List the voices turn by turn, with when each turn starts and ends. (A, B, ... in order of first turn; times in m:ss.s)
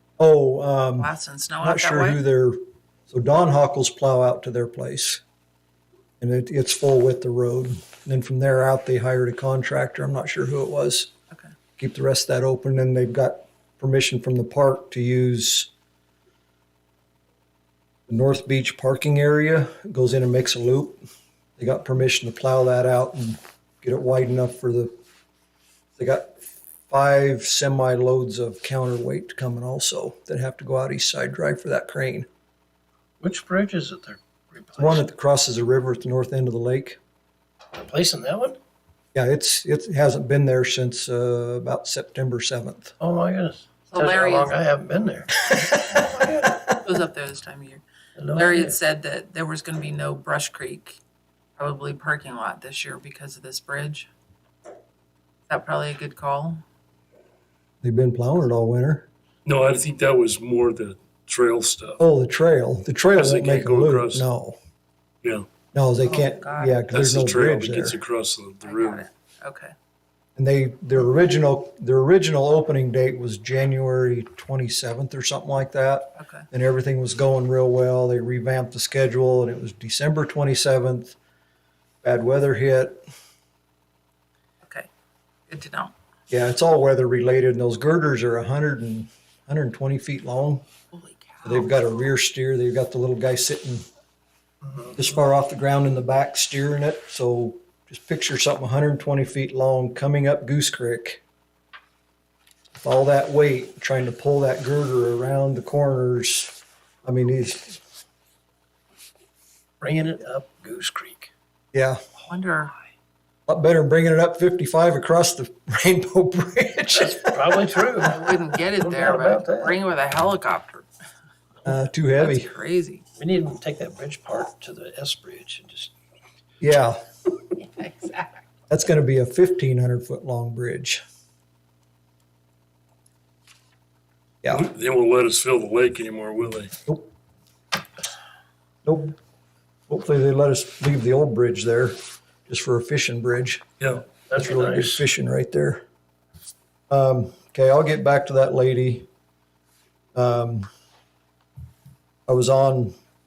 0:00.2-0:02.6 A
0:01.0-0:02.2 B
0:03.1-0:05.2 A
0:06.2-0:11.1 A
0:11.8-0:15.7 A
0:18.1-0:21.0 A
0:21.6-0:24.9 A
0:26.0-0:26.3 A
0:26.9-0:32.3 A
0:33.2-0:35.0 C
0:34.8-0:37.0 A
0:37.7-0:38.6 C
0:39.1-0:42.9 A
0:43.0-0:46.6 C
0:43.9-0:44.6 B
0:46.8-0:47.8 B
0:48.2-0:48.8 C
0:48.3-0:51.0 B
0:51.6-0:54.1 B
0:55.5-0:56.6 B
0:57.8-0:59.1 A
0:59.4-1:02.0 D
1:02.0-1:04.6 A
1:03.1-1:04.2 D
1:05.7-1:08.0 A
1:06.0-1:06.8 B
1:06.9-1:09.0 D
1:08.6-1:09.7 B
1:10.4-1:21.2 A
1:16.2-1:16.4 B
1:22.0-1:23.0 A
1:24.6-1:24.9 B
1:25.5-1:25.9 B
1:26.3-1:30.6 A
1:30.9-1:31.7 B
1:31.4-1:33.8 A
1:34.9-1:41.2 A
1:42.7-1:47.8 A
1:49.8-1:51.3 C
1:51.7-1:52.0 A
1:52.3-1:52.7 B
1:53.5-1:57.5 A
1:56.9-1:58.2 C
1:58.0-2:00.9 B
1:58.8-1:59.8 C
2:01.6-2:02.5 A
2:02.2-2:03.0 B
2:03.2-2:05.9 C
2:06.6-2:07.0 A
2:07.6-2:08.4 B
2:08.7-2:11.0 A
2:14.5-2:16.7 D
2:18.8-2:19.2 A
2:19.9-2:23.6 A
2:23.8-2:24.0 D
2:24.3-2:25.0 C
2:24.4-2:25.8 A
2:26.9-2:29.1 A
2:30.1-2:30.7 A
2:32.3-2:32.9 A